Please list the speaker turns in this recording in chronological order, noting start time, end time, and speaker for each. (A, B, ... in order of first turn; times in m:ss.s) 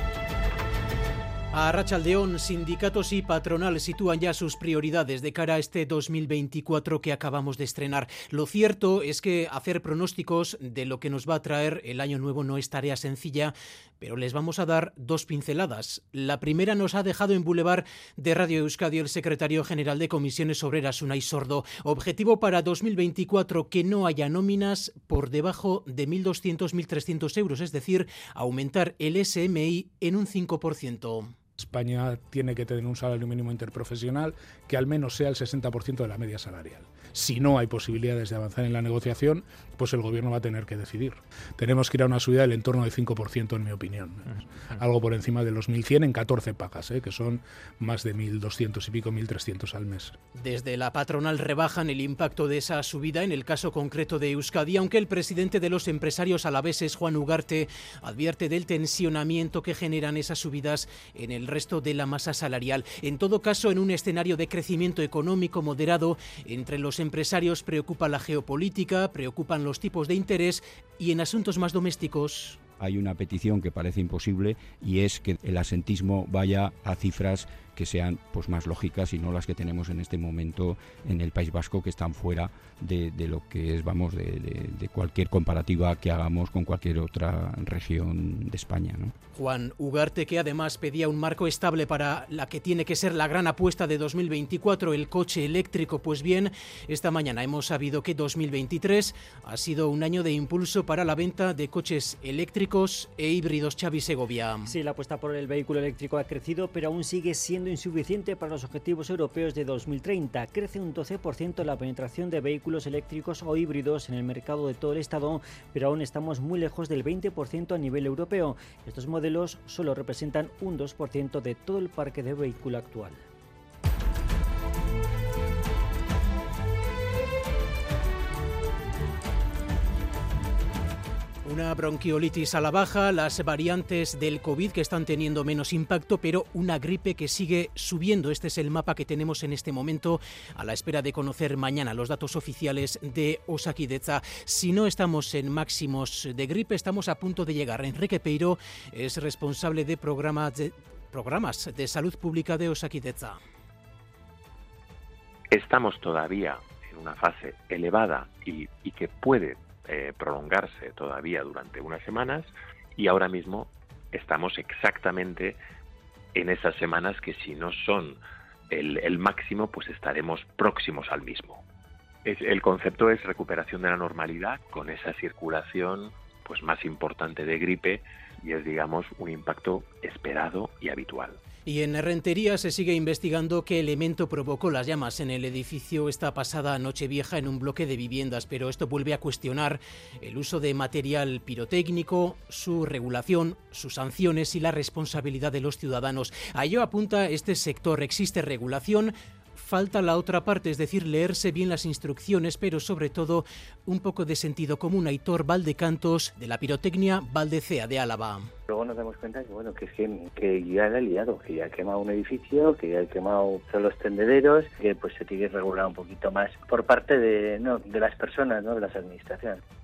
0:01.5-0:31.3 A
0:31.6-0:50.1 B
0:50.4-1:12.6 A
1:12.8-1:29.1 C
1:29.3-1:44.7 A
1:44.7-2:03.2 D
2:11.4-2:33.4 A
2:35.5-2:45.6 E
2:46.3-2:51.6 E
2:52.2-3:01.4 E
3:01.6-3:28.5 A
3:28.7-3:39.6 F